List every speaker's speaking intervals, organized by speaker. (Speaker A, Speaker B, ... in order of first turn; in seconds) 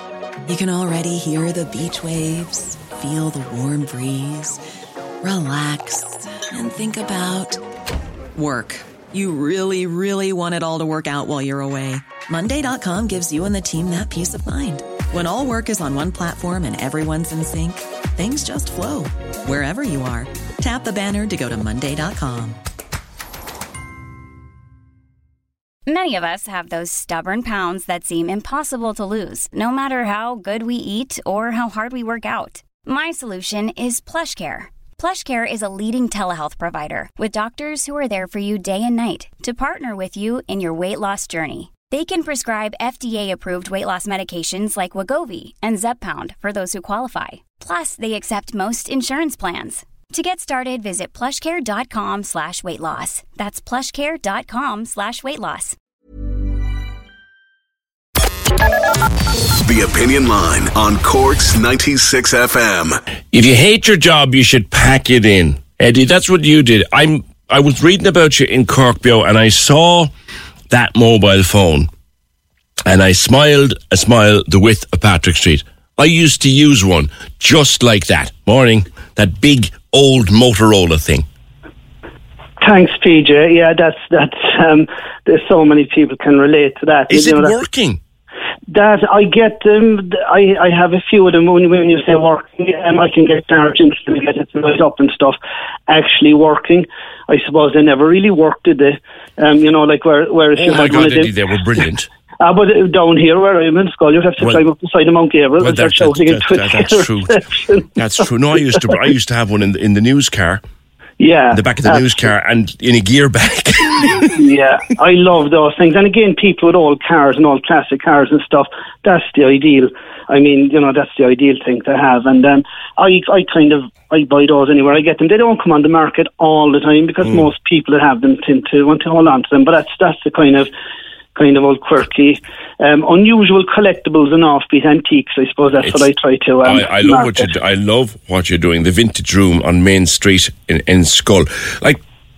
Speaker A: 0.5-4.6, 5.2-7.6, 8.3-22.6
Speaker B: 25.9-55.8
Speaker C: 59.6-63.0
Speaker D: 63.3-70.1, 70.7-71.9, 72.9-81.2, 87.1-88.0, 100.5-102.1, 105.6-107.4, 107.9-110.6, 111.5-114.4, 135.8-136.1, 136.6-142.0
Speaker E: 82.6-87.6, 88.7-101.3, 102.4-107.9, 111.2-112.2, 114.3-130.7, 131.3-137.5